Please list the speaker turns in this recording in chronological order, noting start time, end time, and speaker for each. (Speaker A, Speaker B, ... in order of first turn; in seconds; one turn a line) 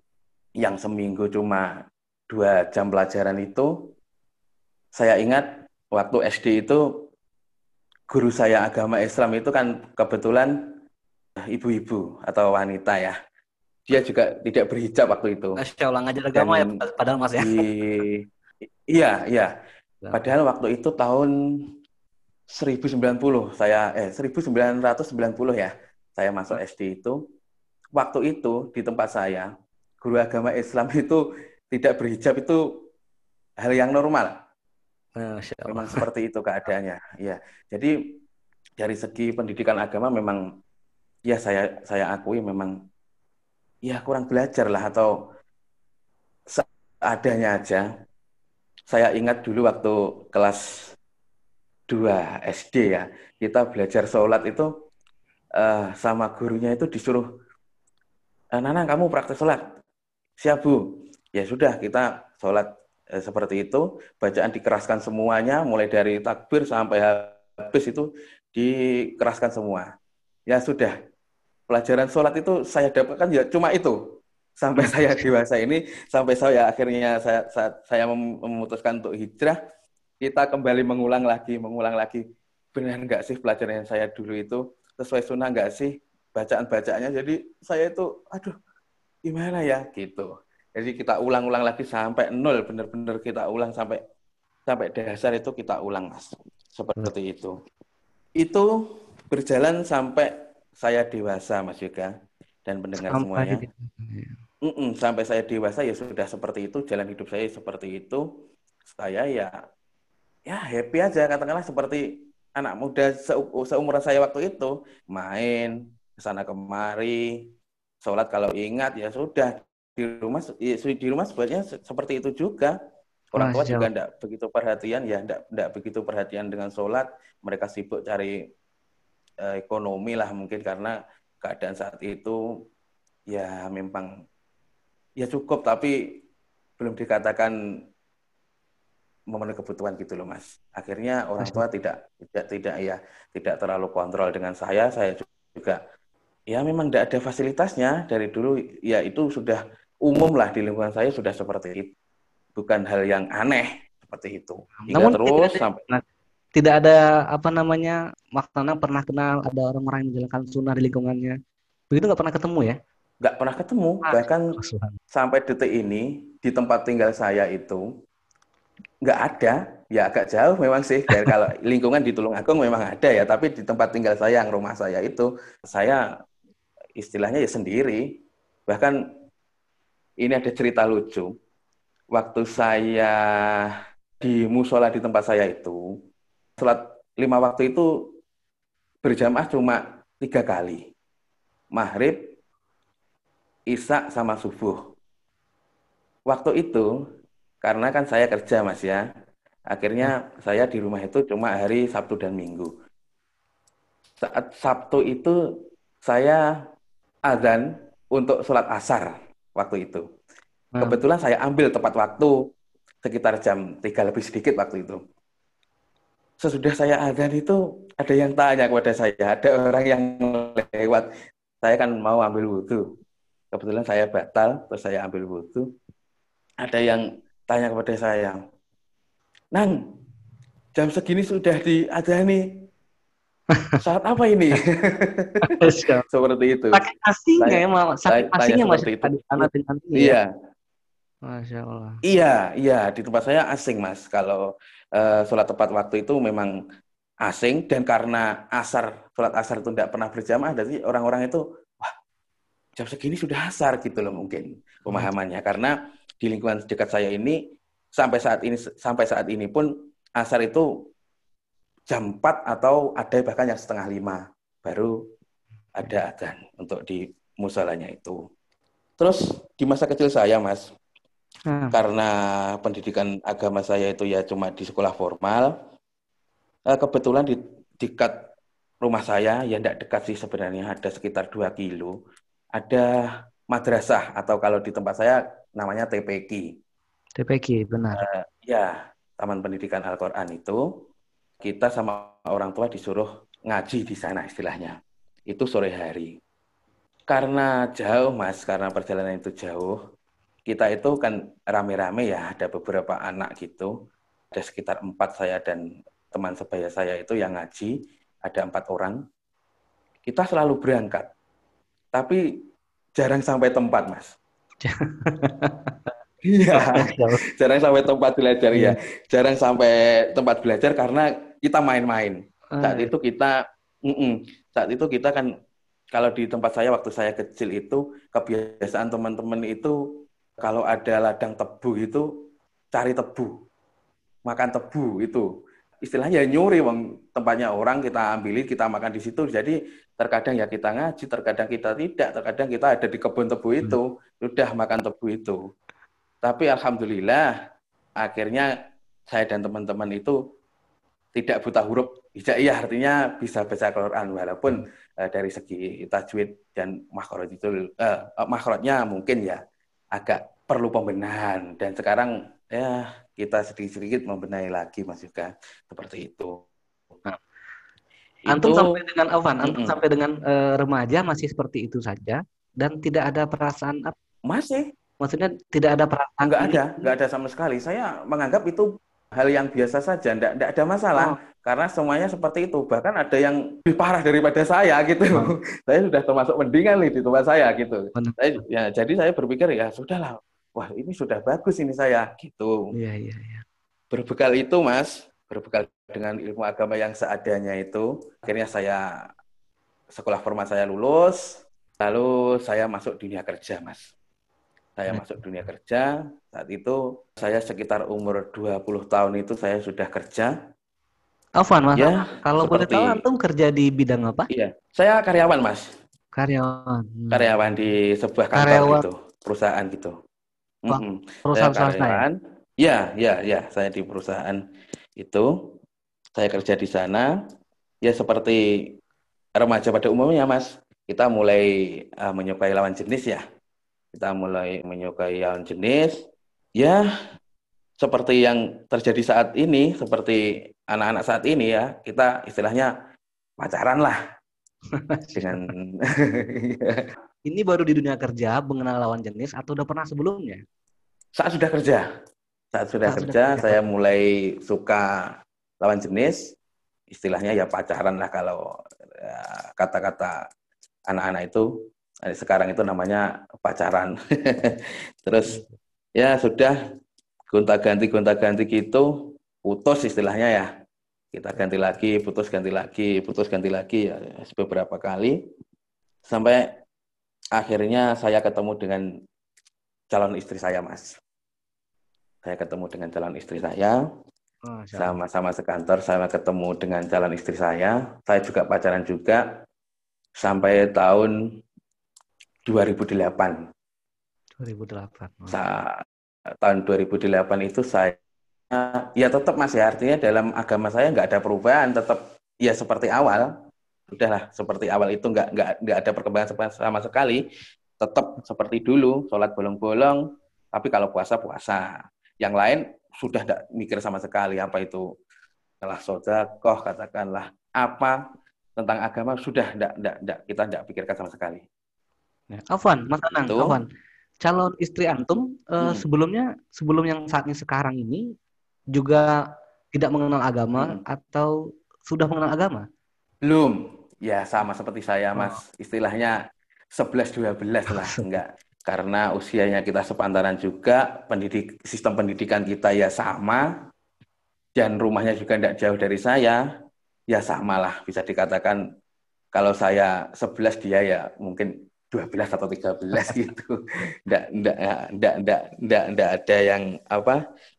Speaker A: 0.6-1.7
Speaker A: 2.3-3.7
Speaker A: 5.0-6.8
Speaker A: 8.1-10.5
Speaker A: 11.5-13.2
Speaker A: 13.9-15.6
Speaker B: 15.6-17.7
Speaker A: 16.3-16.7
Speaker A: 17.4-18.2
Speaker A: 18.9-19.5
Speaker A: 20.1-21.3
Speaker A: 22.5-27.2
Speaker A: 27.9-29.5
Speaker A: 30.0-32.6
Speaker A: 33.6-34.4
Speaker B: 35.2-36.0
Speaker A: 35.7-37.9
Speaker A: 38.8-40.4
Speaker A: 41.3-42.7
Speaker A: 43.8-45.1
Speaker A: 46.5-47.8
Speaker A: 48.9-50.9
Speaker A: 51.9-54.7
Speaker A: 55.6-57.2
Speaker A: 58.5-59.7
Speaker A: 60.4-60.8
Speaker A: 61.3-69.9
Speaker A: 70.5-70.9
Speaker A: 71.7-74.0
Speaker A: 74.6-79.6
Speaker B: 74.8-75.2
Speaker A: 80.2-82.2
Speaker A: 82.7-88.5
Speaker A: 89.3-94.0
Speaker A: 94.7-97.5
Speaker A: 98.4-98.7
Speaker A: 99.3-102.1
Speaker A: 102.7-103.6
Speaker B: 103.0-104.4
Speaker A: 104.6-108.2
Speaker A: 108.9-109.5
Speaker A: 110.5-117.5
Speaker A: 118.0-122.7
Speaker A: 123.3-128.4
Speaker B: 123.4-123.9
Speaker A: 129.4-132.4
Speaker A: 133.3-134.1
Speaker A: 135.2-136.2
Speaker A: 136.8-137.5
Speaker A: 139.3-145.8
Speaker A: 146.5-151.9
Speaker A: 152.6-155.8
Speaker B: 154.8-156.0
Speaker B: 156.6-161.4
Speaker B: 161.9-162.8
Speaker A: 163.2-164.5
Speaker B: 164.0-165.0
Speaker A: 165.1-167.8
Speaker A: 169.0-176.0
Speaker A: 177.0-178.9
Speaker A: 180.2-181.3
Speaker A: 182.1-183.2
Speaker A: 184.2-185.8
Speaker A: 186.6-187.9
Speaker A: 189.0-190.8
Speaker A: 191.7-192.2
Speaker A: 193.7-194.8
Speaker A: 196.3-196.8
Speaker A: 197.6-199.0
Speaker A: 199.7-202.7
Speaker A: 204.2-205.3
Speaker A: 206.0-206.4
Speaker A: 207.3-210.0
Speaker B: 210.7-211.0
Speaker A: 210.8-212.3
Speaker A: 213.0-215.0
Speaker A: 216.4-221.1
Speaker A: 221.6-222.8
Speaker A: 223.5-225.7
Speaker A: 226.6-228.4
Speaker A: 230.7-232.4
Speaker A: 233.8-235.6
Speaker B: 235.4-236.0
Speaker A: 236.1-236.8
Speaker B: 236.7-240.2
Speaker A: 237.4-240.3
Speaker B: 241.3-242.0
Speaker A: 242.0-246.5
Speaker A: 247.2-251.9
Speaker A: 252.8-257.4
Speaker A: 257.9-260.7
Speaker A: 261.9-264.9
Speaker A: 265.8-268.2
Speaker A: 269.0-270.7
Speaker B: 271.5-271.8
Speaker A: 271.7-275.5
Speaker A: 276.7-278.1
Speaker A: 278.8-281.9
Speaker A: 282.6-282.9
Speaker A: 283.5-286.5
Speaker B: 287.2-288.1
Speaker A: 287.9-290.6
Speaker A: 291.4-294.8
Speaker A: 295.3-296.1
Speaker A: 297.1-299.7
Speaker A: 300.5-303.7
Speaker A: 304.3-309.0
Speaker A: 310.1-311.1
Speaker A: 311.9-312.2
Speaker A: 313.0-314.1
Speaker B: 314.6-315.8
Speaker A: 316.2-323.3
Speaker B: 316.5-317.2
Speaker B: 322.5-322.9
Speaker A: 323.9-325.3
Speaker A: 325.9-329.8
Speaker A: 330.4-333.3
Speaker A: 334.3-335.3
Speaker A: 335.8-345.4
Speaker A: 346.2-347.3
Speaker A: 348.0-348.5
Speaker A: 349.1-350.2
Speaker A: 351.1-359.4
Speaker A: 359.9-366.4
Speaker A: 368.3-368.7
Speaker B: 368.3-373.9
Speaker A: 369.4-369.8
Speaker A: 374.3-374.7
Speaker B: 375.0-376.9
Speaker A: 376.2-392.7
Speaker B: 392.7-393.4
Speaker A: 393.9-398.8
Speaker A: 399.9-403.9
Speaker A: 404.8-410.3
Speaker B: 404.9-405.2
Speaker B: 411.4-414.3
Speaker A: 411.7-413.0
Speaker A: 414.3-415.7
Speaker B: 416.1-417.3
Speaker A: 417.1-419.9
Speaker B: 418.3-418.8
Speaker A: 420.7-424.4
Speaker B: 420.7-422.0
Speaker A: 425.0-425.3
Speaker A: 426.1-427.1
Speaker A: 427.8-428.4
Speaker A: 429.4-433.2
Speaker A: 433.9-436.0
Speaker A: 437.8-442.7
Speaker A: 443.4-444.0
Speaker B: 444.7-445.5
Speaker A: 445.1-446.8
Speaker B: 447.2-450.4
Speaker A: 451.1-451.8
Speaker A: 452.5-454.9
Speaker B: 452.9-453.6
Speaker A: 455.6-456.3
Speaker A: 456.9-460.2
Speaker A: 460.9-461.5
Speaker A: 462.1-465.4
Speaker B: 465.2-465.6
Speaker A: 466.0-466.6
Speaker A: 467.3-468.9
Speaker A: 469.4-470.5
Speaker A: 471.1-475.2
Speaker A: 476.1-476.5
Speaker A: 477.4-478.8
Speaker A: 479.9-481.0
Speaker A: 482.2-483.8
Speaker B: 484.4-484.9
Speaker A: 484.8-489.2
Speaker A: 490.2-491.1
Speaker A: 492.5-493.4
Speaker B: 494.4-495.4
Speaker A: 495.3-495.8
Speaker A: 496.4-498.0
Speaker A: 498.5-503.3
Speaker A: 503.9-507.2
Speaker A: 507.8-510.0
Speaker A: 510.5-514.8
Speaker A: 515.6-518.0
Speaker A: 518.6-521.4
Speaker B: 522.3-523.6
Speaker A: 523.2-523.6
Speaker B: 524.2-528.0
Speaker B: 528.7-529.1
Speaker B: 529.7-531.3
Speaker B: 531.9-532.6
Speaker A: 533.2-536.2
Speaker A: 536.7-543.4
Speaker B: 537.8-538.0
Speaker A: 544.5-546.4
Speaker A: 547.1-548.6
Speaker A: 549.3-557.2